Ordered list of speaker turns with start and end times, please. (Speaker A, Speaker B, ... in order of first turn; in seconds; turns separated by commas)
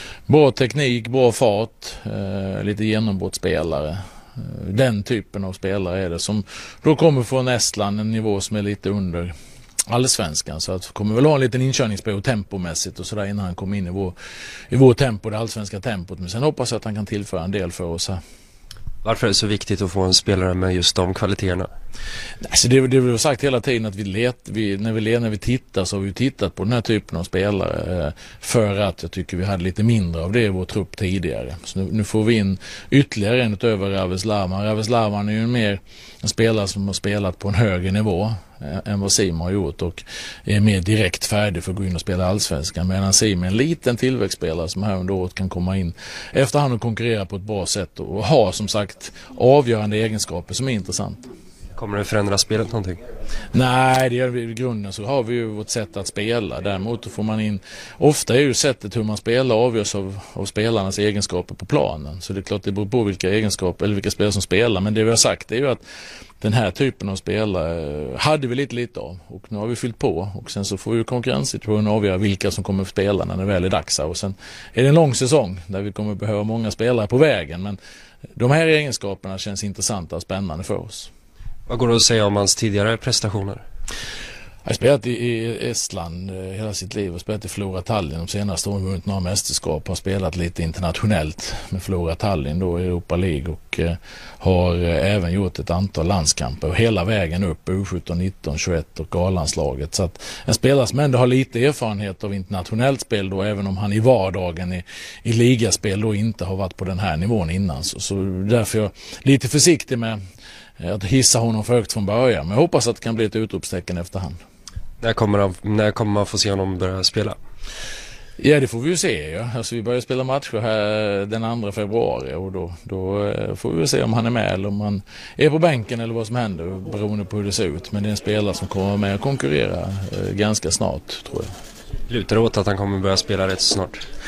Speaker A: 0.3-9.3, Speaker A: 9.9-14.2, Speaker A: 14.7-18.2, Speaker B: 19.0-21.7, Speaker A: 22.4-51.3, Speaker B: 51.8-53.0, Speaker A: 53.5-65.8, Speaker A: 66.4-77.8, Speaker A: 78.4-81.1, Speaker B: 81.7-83.6, Speaker A: 84.7-110.2, Speaker A: 110.8-114.4, Speaker B: 115.0-117.4, Speaker A: 118.4-131.5, Speaker B: 132.1-134.0